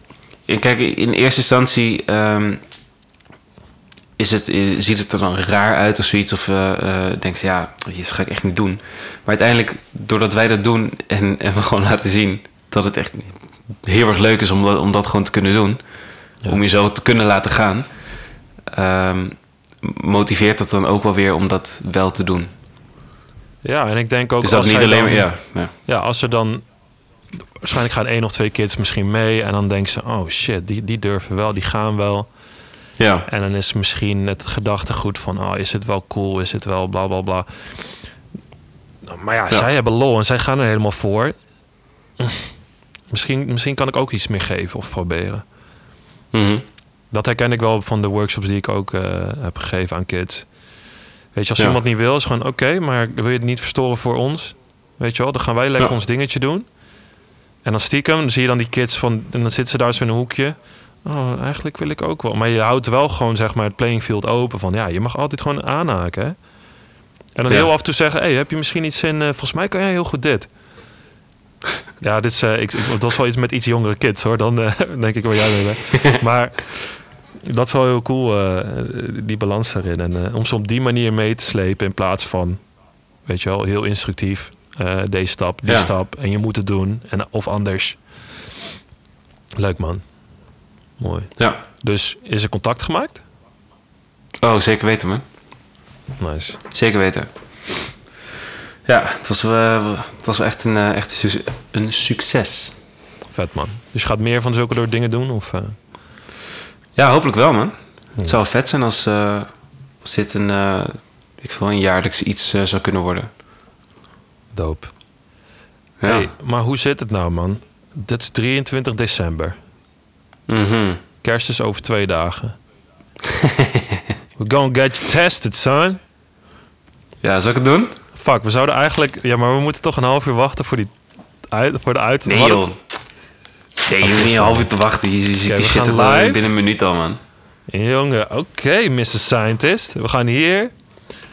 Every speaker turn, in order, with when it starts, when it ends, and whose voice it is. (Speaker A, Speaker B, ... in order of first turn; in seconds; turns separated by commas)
Speaker A: 0.5-2.6, Speaker A: 4.2-15.8, Speaker A: 16.5-17.9, Speaker A: 18.7-22.5, Speaker B: 23.6-25.3, Speaker A: 24.4-25.7, Speaker B: 25.9-26.6, Speaker B: 27.6-32.3, Speaker A: 33.0-33.3, Speaker B: 33.3-37.9, Speaker B: 39.0-41.4, Speaker B: 42.2-42.5, Speaker B: 43.1-45.4, Speaker A: 46.3-46.6, Speaker B: 47.1-50.5, Speaker B: 51.3-56.6, Speaker B: 57.6-66.3, Speaker B: 67.3-70.5, Speaker B: 72.0-76.9, Speaker B: 77.4-82.6, Speaker B: 83.2-88.3, Speaker A: 85.6-85.9, Speaker B: 89.5-90.0, Speaker B: 91.0-93.2, Speaker A: 94.4-95.2, Speaker B: 96.2-96.6, Speaker A: 96.7-97.3, Speaker A: 98.8-102.7, Speaker B: 103.3-105.8, Speaker A: 107.0-109.5, Speaker A: 110.0-113.3, Speaker B: 114.5-114.9, Speaker A: 116.0-116.3, Speaker B: 116.0-119.6, Speaker A: 120.5-121.0, Speaker B: 121.2-122.5, Speaker A: 123.2-124.0, Speaker B: 124.4-126.0, Speaker A: 127.2-127.9, Speaker B: 128.1-130.9, Speaker B: 131.5-132.6, Speaker A: 132.2-132.8, Speaker A: 133.8-137.2, Speaker B: 134.0-134.7, Speaker B: 135.4-136.5, Speaker B: 137.7-140.7